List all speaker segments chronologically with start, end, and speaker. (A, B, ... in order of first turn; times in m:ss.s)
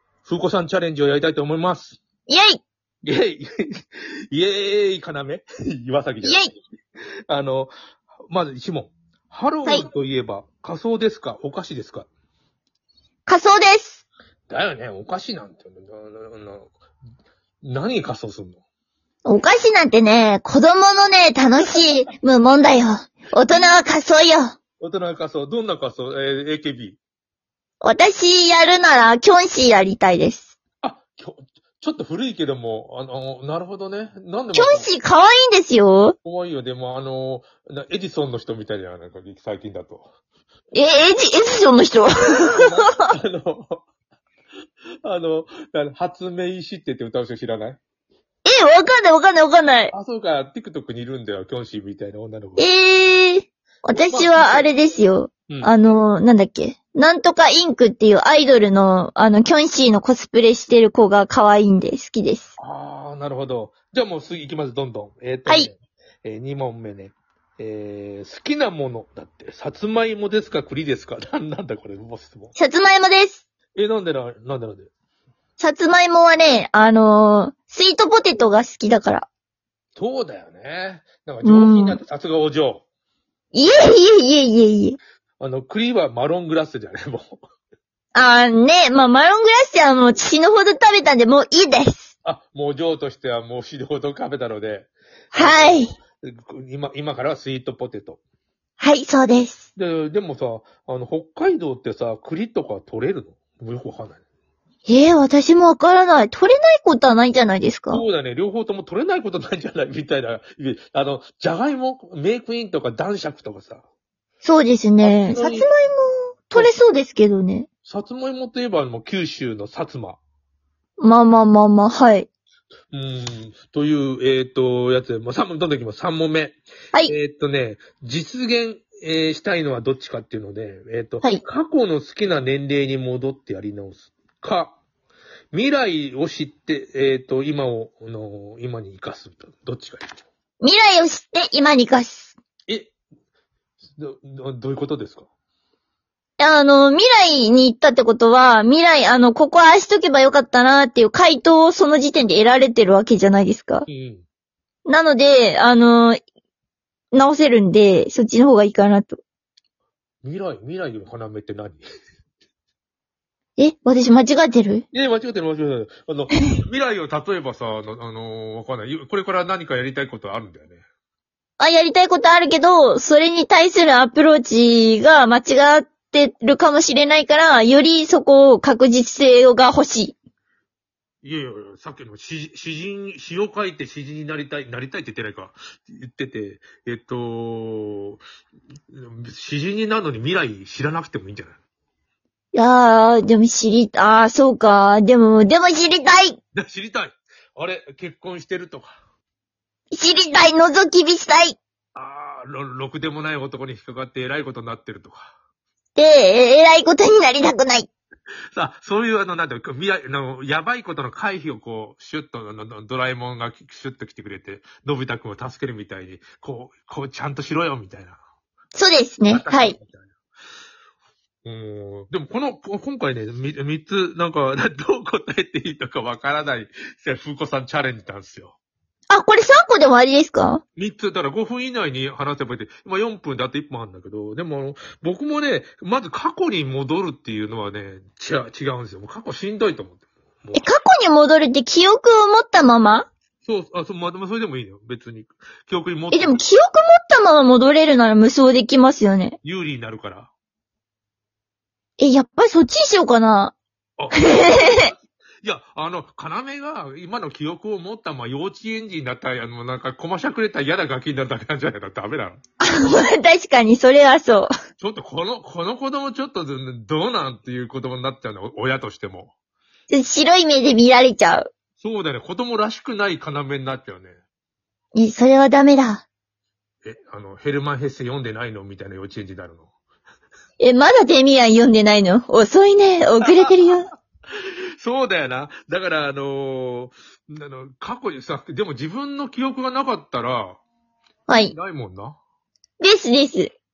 0:00.2-0:02.0 A
0:02.3-0:02.6 B
0:03.0-0:06.4 A
0:06.2-0:06.5 B
0:07.3-0:07.7 A
0:08.3-0:12.1 A
0:13.2-0:14.0 B
0:14.5-0:16.7 A
0:17.6-0:18.6 A
0:19.2-0:24.6 B
0:23.4-0:23.8 A
0:24.8-0:27.0 A
0:27.8-0:30.5 B
0:30.8-0:34.9 A
0:34.5-0:36.2 B
0:36.2-0:40.1 A
0:40.7-0:43.1 B
0:42.3-0:43.8 A
0:45.0-0:47.8 A
0:48.4-0:49.9 B
0:49.9-0:52.7 A
0:52.6-1:02.5 B
0:53.9-0:54.7 A
0:55.5-0:55.7 A
1:02.6-1:12.5 A
1:12.6-1:13.4 B
1:13.7-1:14.9 A
1:15.6-1:19.3 B
1:19.9-1:22.8 A
1:21.4-1:22.0 B
1:23.5-1:25.0 B
1:25.4-1:27.4 A
1:28.1-1:32.1 B
1:32.2-1:38.2 A
1:35.3-1:35.9 B
1:38.8-1:39.7 B
1:39.7-1:44.2 A
1:44.9-1:48.0 B
1:47.9-1:53.8 A
1:54.4-1:57.7 B
1:55.0-1:55.7 A
1:56.5-1:56.8 A
1:57.8-2:00.2 A
2:01.0-2:02.3 B
2:02.9-2:14.8 A
2:15.5-2:20.2 A
2:20.6-2:22.4 B
2:22.7-2:22.9 A
2:24.0-2:25.3 A
2:26.4-2:33.9 B
2:33.9-2:34.2 A
2:34.8-2:36.2 B
2:37.1-2:39.2 B
2:40.2-2:41.8 A
2:43.6-2:44.8 B
2:44.9-2:50.8 A
2:51.6-3:00.2 B
3:01.2-3:08.2 A
3:08.9-3:11.6 A
3:12.5-3:16.4 B
3:16.5-3:19.0 A
3:19.9-3:21.6 B
3:21.9-3:25.3 A
3:26.0-3:27.9 B
3:28.5-3:38.2 A
3:38.7-3:39.8 B
3:39.3-3:40.1 A
3:41.4-3:48.5 A
3:49.1-3:50.6 B
3:50.8-4:00.7 A
4:00.5-4:03.1 B
4:03.4-4:06.4 A
4:06.1-4:09.4 B
4:09.4-4:10.3 A
4:12.0-4:13.5 B
4:14.0-4:22.4 A
4:14.1-4:14.9 B
4:22.6-4:24.5 B
4:24.8-4:29.3 A
4:29.9-4:31.5 B
4:31.8-4:34.2 A
4:34.9-4:36.0 B
4:36.8-4:39.7 A
4:40.6-4:43.9 B
4:43.2-4:43.8 A
4:44.8-4:50.6 A
4:51.3-4:51.5 B
4:51.5-4:52.2 A
4:52.8-4:53.5 B